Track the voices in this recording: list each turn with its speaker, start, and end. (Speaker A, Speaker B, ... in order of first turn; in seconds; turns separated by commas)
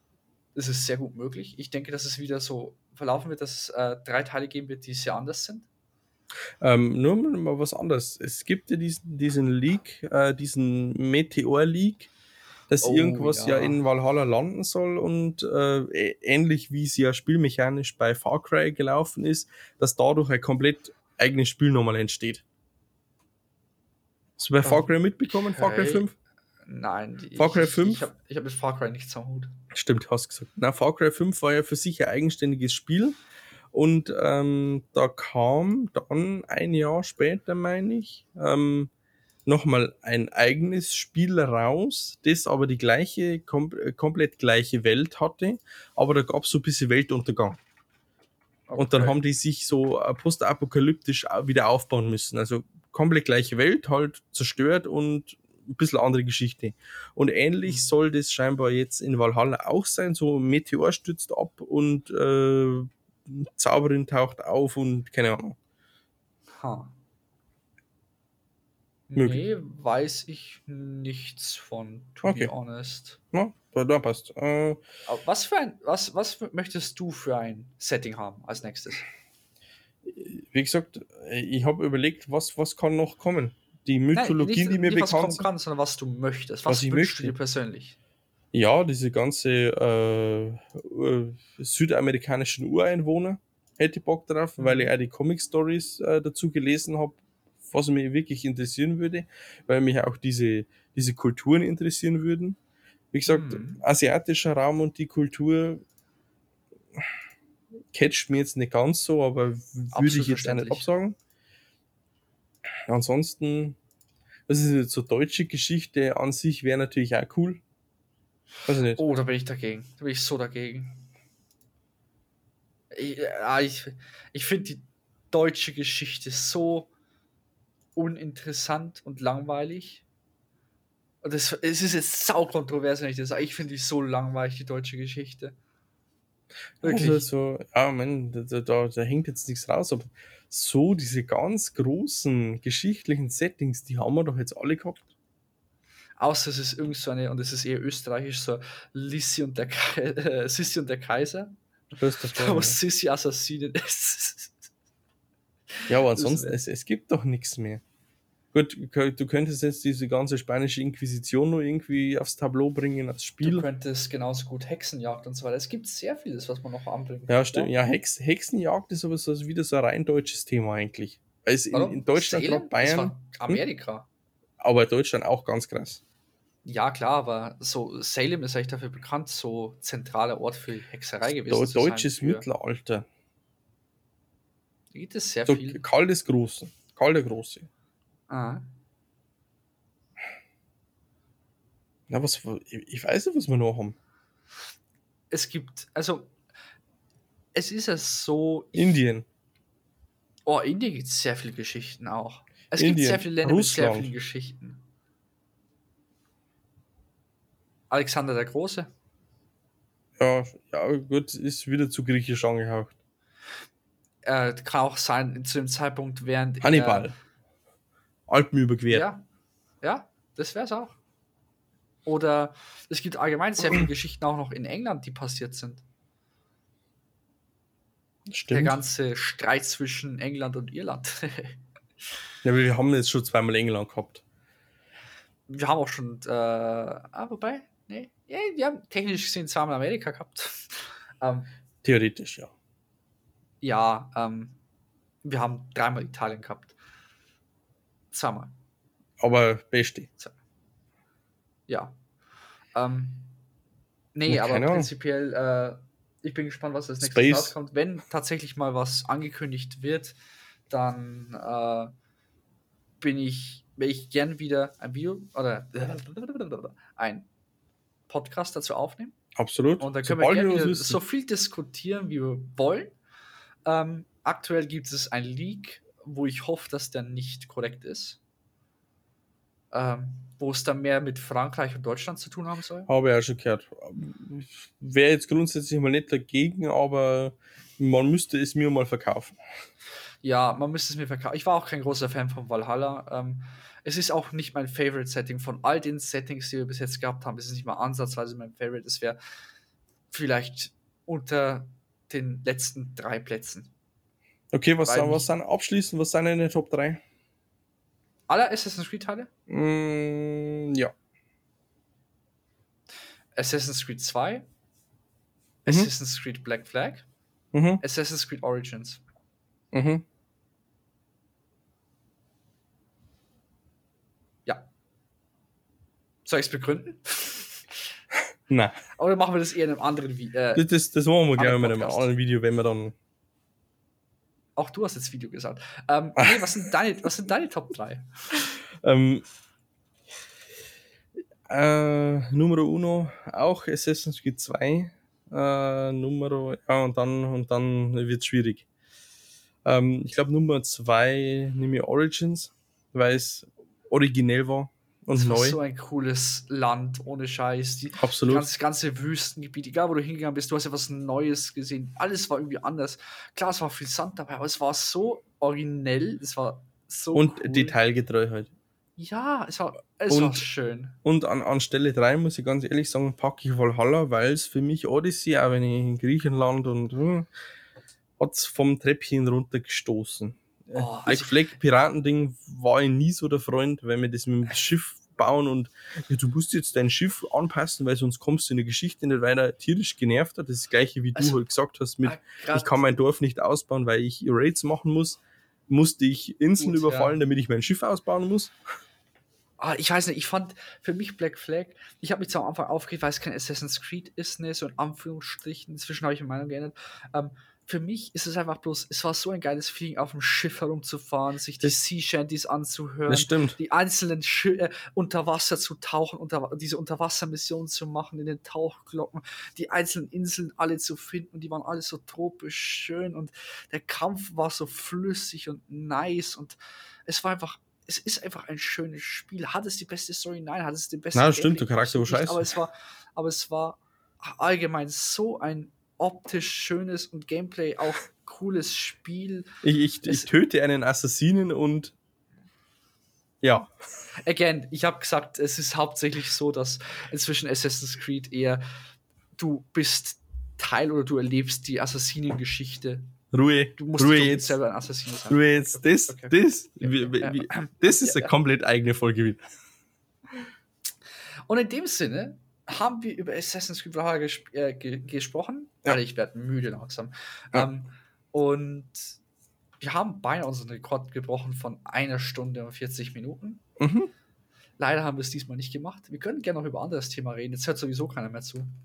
Speaker A: 0.6-5.7, Speaker B: 6.6-12.1, Speaker B: 12.7-22.4, Speaker A: 12.8-13.8, Speaker B: 24.4-26.1, Speaker A: 24.6-26.1, Speaker A: 26.7-29.5, Speaker B: 27.4-28.1, Speaker B: 29.7-33.2, Speaker B: 33.7-38.9, Speaker B: 39.5-47.6, Speaker A: 48.7-49.2, Speaker B: 48.8-65.6, Speaker A: 66.5-66.9, Speaker A: 69.1-73.2, Speaker B: 69.2-69.5, Speaker B: 72.2-72.5, Speaker B: 73.3-74.8, Speaker A: 75.1-79.1, Speaker B: 80.0-85.5, Speaker A: 84.2-88.0, Speaker B: 86.7-87.3, Speaker B: 88.5-102.6, Speaker A: 94.6-94.9, Speaker B: 103.1-105.8, Speaker A: 103.3-103.8, Speaker B: 107.9-111.2, Speaker A: 109.9-110.9, Speaker B: 112.9-113.8, Speaker B: 114.5-117.6, Speaker B: 118.7-119.0, Speaker A: 118.9-121.0, Speaker A: 122.9-126.9, Speaker A: 128.0-130.0, Speaker A: 131.2-135.6, Speaker B: 136.8-145.0, Speaker A: 136.8-137.3, Speaker A: 146.2-154.6, Speaker B: 152.0-152.8, Speaker A: 155.8-156.6, Speaker B: 155.9-157.8, Speaker B: 158.5-163.7, Speaker A: 163.4-167.7, Speaker B: 167.3-173.6, Speaker A: 171.7-174.1, Speaker B: 174.6-176.0, Speaker A: 176.7-182.5, Speaker B: 181.3-183.1, Speaker A: 184.9-185.8, Speaker B: 185.5-187.7, Speaker A: 188.3-188.6, Speaker B: 192.1-194.0, Speaker A: 195.3-196.3, Speaker A: 197.5-199.0, Speaker B: 198.8-199.3, Speaker A: 200.5-204.8, Speaker B: 202.8-204.1, Speaker A: 207.9-208.9, Speaker B: 210.2-212.9, Speaker A: 214.2-217.1, Speaker B: 216.6-217.1, Speaker B: 218.3-219.1, Speaker A: 218.9-219.2, Speaker A: 219.8-221.0, Speaker A: 222.1-225.8, Speaker B: 223.6-223.9, Speaker B: 228.3-228.8, Speaker A: 228.5-231.6, Speaker B: 232.4-234.2, Speaker A: 235.5-241.5, Speaker B: 241.8-242.5, Speaker A: 243.6-244.6, Speaker A: 245.2-246.8, Speaker A: 248.1-248.5, Speaker B: 249.2-250.1, Speaker A: 251.7-252.0, Speaker A: 252.8-253.3, Speaker A: 254.2-260.2, Speaker B: 254.3-254.9, Speaker B: 257.0-257.5, Speaker A: 260.7-261.9, Speaker A: 263.0-267.3, Speaker A: 268.1-269.2, Speaker B: 269.4-271.0, Speaker A: 269.8-273.0, Speaker A: 273.7-278.2, Speaker A: 279.7-282.9, Speaker B: 282.9-289.4, Speaker A: 290.2-299.2, Speaker A: 300.1-303.7, Speaker B: 304.5-307.0, Speaker A: 304.9-305.3, Speaker A: 308.3-309.3, Speaker B: 309.5-310.9, Speaker A: 313.4-314.5, Speaker A: 315.6-317.1, Speaker B: 317.5-317.8, Speaker A: 317.8-319.0, Speaker B: 319.7-320.0, Speaker A: 326.3-327.6, Speaker B: 328.5-328.8, Speaker A: 329.0-330.7, Speaker B: 330.6-332.9, Speaker A: 331.4-332.1, Speaker A: 334.6-338.1, Speaker B: 338.8-339.2, Speaker B: 341.5-348.6, Speaker B: 349.6-355.6, Speaker A: 355.1-367.8, Speaker B: 358.0-358.5, Speaker B: 367.1-368.5, Speaker A: 369.0-371.0, Speaker B: 370.1-370.5, Speaker B: 371.0-377.3, Speaker B: 378.2-398.5, Speaker A: 380.7-381.6, Speaker A: 391.1-391.4, Speaker A: 392.0-392.9, Speaker A: 396.6-397.2, Speaker A: 399.6-439.5, Speaker B: 413.1-413.6, Speaker B: 431.1-432.5, Speaker B: 439.6-441.9, Speaker A: 440.1-440.3, Speaker B: 443.4-443.7, Speaker A: 444.2-448.6, Speaker A: 449.4-453.1, Speaker B: 453.3-454.6, Speaker A: 453.8-458.3, Speaker B: 455.3-459.5, Speaker A: 461.5-469.2, Speaker A: 469.8-473.6, Speaker B: 473.8-474.1, Speaker A: 474.8-478.7